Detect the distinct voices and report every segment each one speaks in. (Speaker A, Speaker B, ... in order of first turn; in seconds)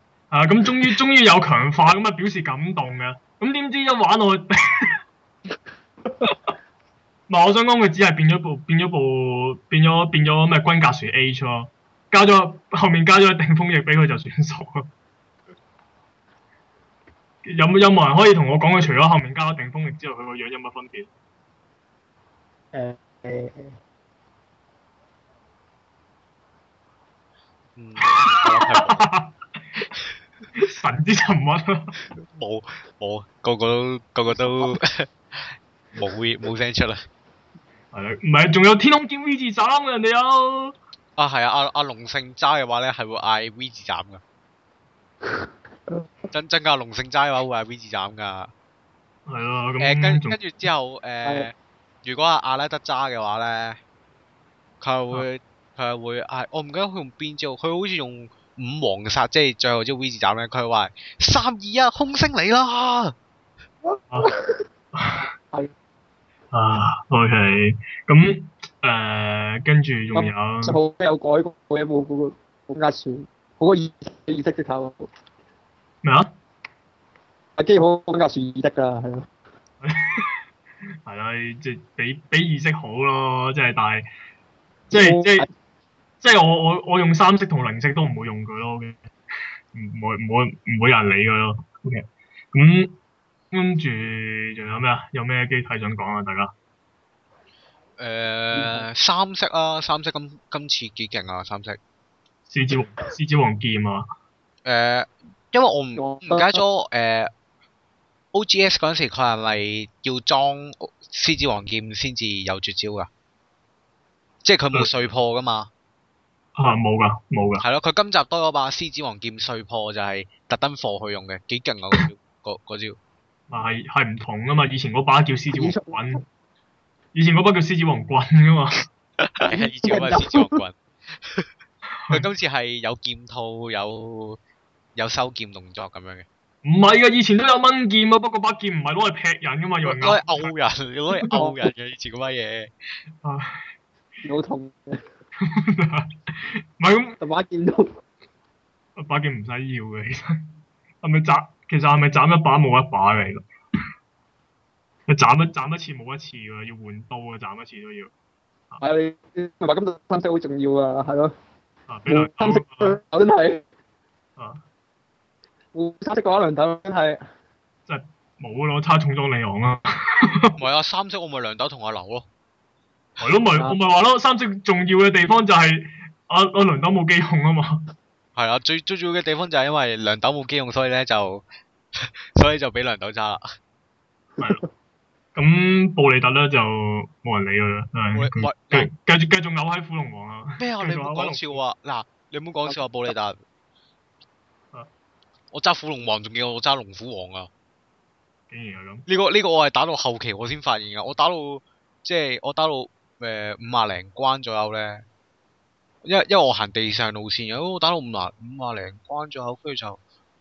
Speaker A: 0.3-5.0, 7.3-14.9, 17.4-21.1, 28.0-29.4, 30.6-31.9, 37.9-40.8, 49.3-50.4, 64.9-65.3, 66.5-70.8, 76.0-76.3, 79.8-80.3, 81.0-84.1, 84.9-85.5, 86.2-89.0, 89.7-93.0, 93.5-96.5, 102.5-104.1, 114.7-115.1, 116.6-117.7, 123.5-126.2, 127.1-128.9, 136.6-140.5, 143.2-143.6, 145.4-147.2, 149.0-150.4, 151.0-153.5, 155.1-158.1, 161.9-163.0, 164.4-164.6, 167.9-170.5, 173.2-177.9, 185.3-191.6, 198.5-199.1
Speaker B: 22.7-23.8, 45.3-46.1, 63.8-64.6, 70.2-75.1, 77.6-79.3, 85.0-85.5, 98.5-98.8, 106.0-106.6, 125.5-126.2, 129.4-130.6, 141.3-141.7, 144.2-145.0, 147.2-147.9, 158.8-161.3, 162.1-163.6, 165.7-167.2, 184.4-184.7
Speaker C: 27.8-29.1, 32.2-37.0, 41.2-44.2, 46.3-48.5, 49.8-53.8, 54.8-63.1, 98.0-101.8, 104.7-107.3, 108.3-113.1, 114.4-115.7, 117.6-123.0, 129.4-131.5, 132.1-134.4, 135.0-136.3, 139.8-142.7, 170.6-172.3, 178.4-181.4, 182.0-183.4, 188.1-188.9, 190.6-193.4, 195.5-197.5, 199.1-205.1, 206.0-210.0